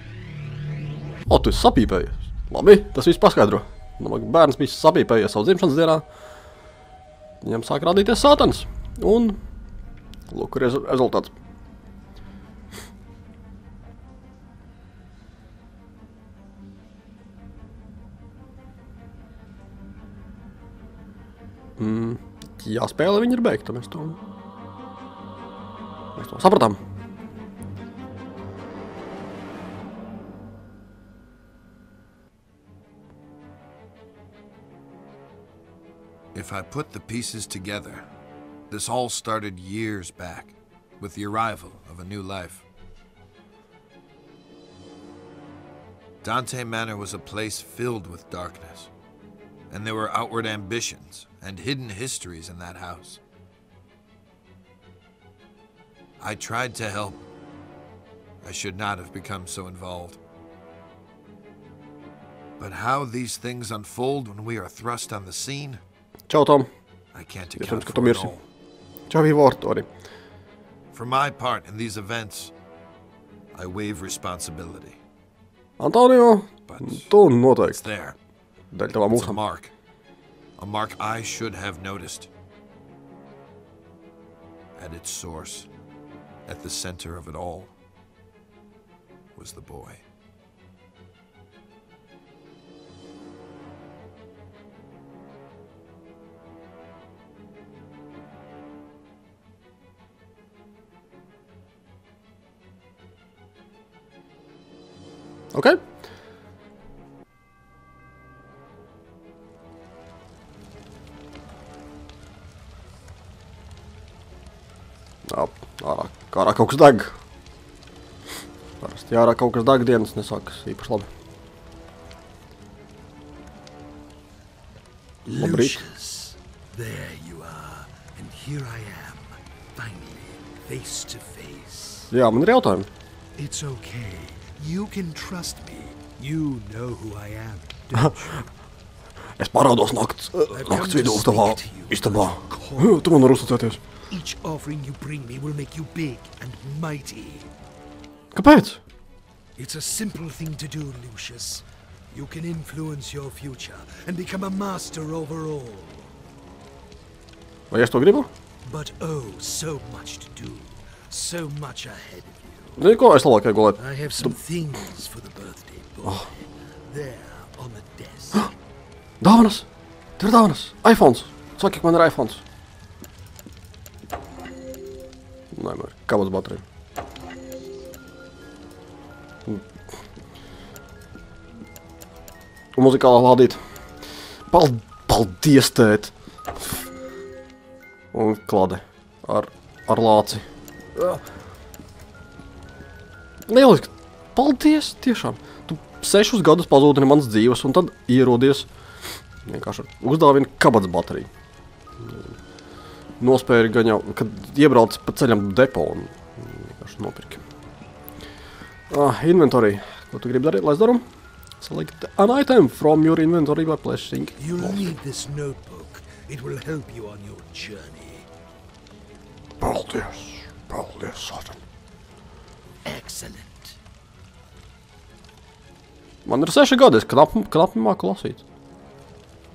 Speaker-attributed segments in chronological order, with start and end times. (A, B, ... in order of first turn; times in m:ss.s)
0:01.3-0:06.0 A
0:07.4-0:09.4 A
0:10.3-0:11.3 A
0:21.8-0:24.2 A
0:26.2-0:26.8 A
0:36.3-0:38.1 B
0:38.7-0:42.6 B
0:46.2-0:48.9 B
0:49.7-0:53.2 B
0:56.2-0:57.2 B
0:58.4-1:00.2 B
1:02.6-1:05.8 B
1:06.3-1:06.7 A
1:07.1-1:08.4 B
1:07.6-1:08.4 A
1:09.1-1:09.9 A
1:10.9-1:12.5 B
1:13.5-1:15.0 B
1:15.8-1:17.8 A
1:16.7-1:17.1 B
1:17.7-1:18.2 B
1:18.7-1:19.4 A
1:18.9-1:19.7 B
1:20.6-1:22.3 B
1:24.8-1:25.7 B
1:26.5-1:27.7 B
1:29.4-1:30.0 B
1:45.5-1:45.8 A
1:55.3-1:57.2 A
1:58.8-2:01.1 A
2:05.2-2:12.1 C
2:05.3-2:05.8 A
2:12.1-2:12.9 A
2:13.4-2:18.5 C
2:19.4-2:23.8 A
2:20.5-2:23.1 C
2:24.1-2:27.5 C
2:28.3-2:28.8 A
2:29.6-2:36.1 C
2:37.7-2:38.3 A
2:38.6-2:42.8 C
2:42.8-2:44.4 A
2:43.8-2:48.5 C
2:49.2-2:49.7 A
2:50.2-2:52.4 A
2:55.5-2:56.6 A
3:02.8-3:03.6 A
3:04.5-3:06.8 A
3:08.1-3:11.2 A
3:13.5-3:18.7 A
3:19.4-3:21.3 A
3:22.0-3:22.3 A
3:23.2-3:27.4 A
3:28.9-3:31.0 A
3:31.6-3:35.0 A
3:34.4-3:38.3 C
3:39.6-3:41.6 A
3:42.8-3:43.8 C
3:46.3-3:48.4 A